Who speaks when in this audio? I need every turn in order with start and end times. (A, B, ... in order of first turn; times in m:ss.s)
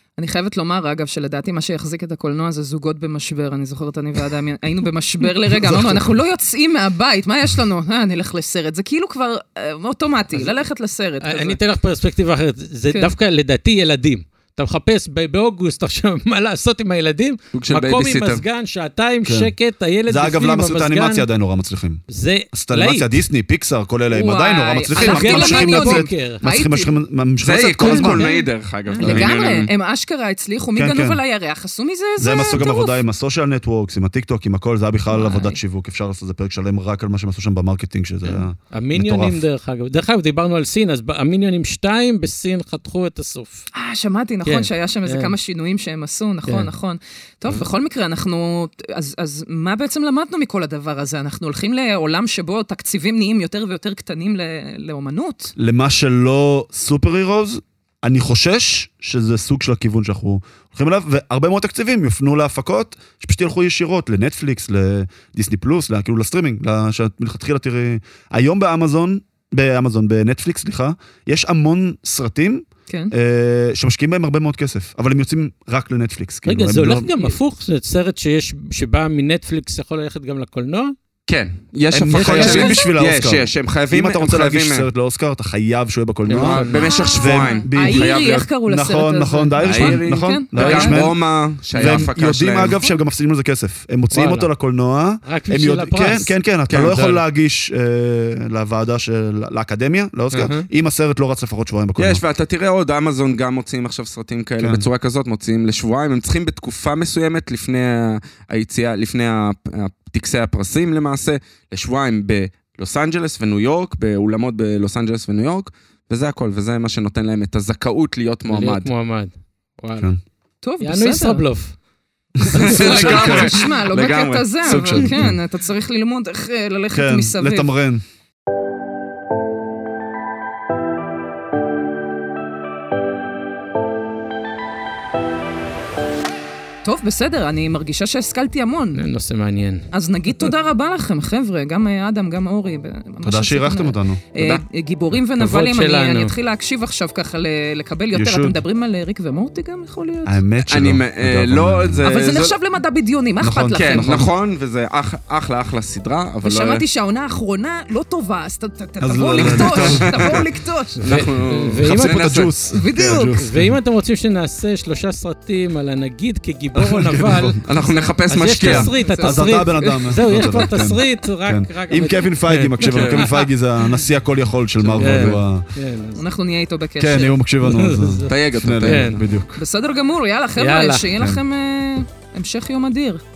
0:00.2-0:11.6 A
0:05.6-0:06.0 B
0:11.2-0:21.3 C
0:17.5-0:18.4 D
0:19.2-0:19.5 B
0:20.1-0:28.4 B
0:22.1-0:23.2 C
0:24.1-0:26.9 A
0:25.0-0:26.4 C
0:27.4-0:29.7 D
0:27.8-0:29.1 C
0:29.0-0:29.2 B
0:29.0-0:33.0 A
0:30.7-0:31.2 B
0:32.2-0:39.4 B
0:35.1-0:35.6 A
0:38.7-0:43.7 C
0:43.8-0:55.5 A
0:44.4-0:45.3 C
0:55.6-1:17.1 B
1:16.4-1:20.9 C
1:21.3-1:24.9 D
1:21.9-1:31.2 B
1:22.1-1:22.7 C
1:22.3-1:22.9 A
1:26.3-1:26.9 C
1:26.3-1:28.5 D
1:26.7-1:31.0 A
1:29.6-1:32.8 D
1:31.7-1:42.2 B
1:32.7-1:33.0 A
1:34.1-1:34.5 C
1:35.2-1:37.1 C
1:36.7-1:37.2 D
1:40.3-1:40.7 C
1:42.0-1:58.9 D
1:44.6-1:44.9 B
1:58.5-2:00.1 C
2:00.6-2:01.4 A
2:00.8-2:01.8 C
2:02.4-2:03.6 B
2:02.4-2:03.0 C
2:02.5-2:05.2 D
2:02.8-2:07.7 A
2:04.6-2:05.4 B
2:06.9-2:08.0 B
2:16.8-2:19.0 A
2:18.9-2:19.8 C
2:19.9-2:30.4 A
2:23.2-2:24.2 B
2:24.4-2:24.6 D
2:25.4-2:26.3 C
2:28.1-2:28.6 B
2:30.2-2:32.1 B
2:30.7-2:32.5 D
2:32.0-2:34.3 A
2:33.4-2:34.3 B
2:33.7-2:36.8 D
2:36.4-2:41.0 A
2:39.0-2:40.4 B
2:39.4-2:40.4 D
2:41.0-2:42.5 D
2:41.1-2:42.3 C
2:41.8-2:43.7 B
2:42.7-2:43.4 A
2:43.4-2:53.5 C
2:46.7-2:47.6 B
2:47.6-2:48.9 D
2:47.8-2:48.1 A
2:48.6-2:55.6 B
2:49.0-2:50.7 A
2:52.8-2:53.3 D
2:54.8-2:56.2 C
2:55.0-2:55.3 D
2:56.1-2:57.4 A
2:57.0-2:59.6 B
2:57.6-2:59.2 C
2:58.3-2:59.2 D
2:59.6-3:03.2 A
3:00.6-3:01.1 C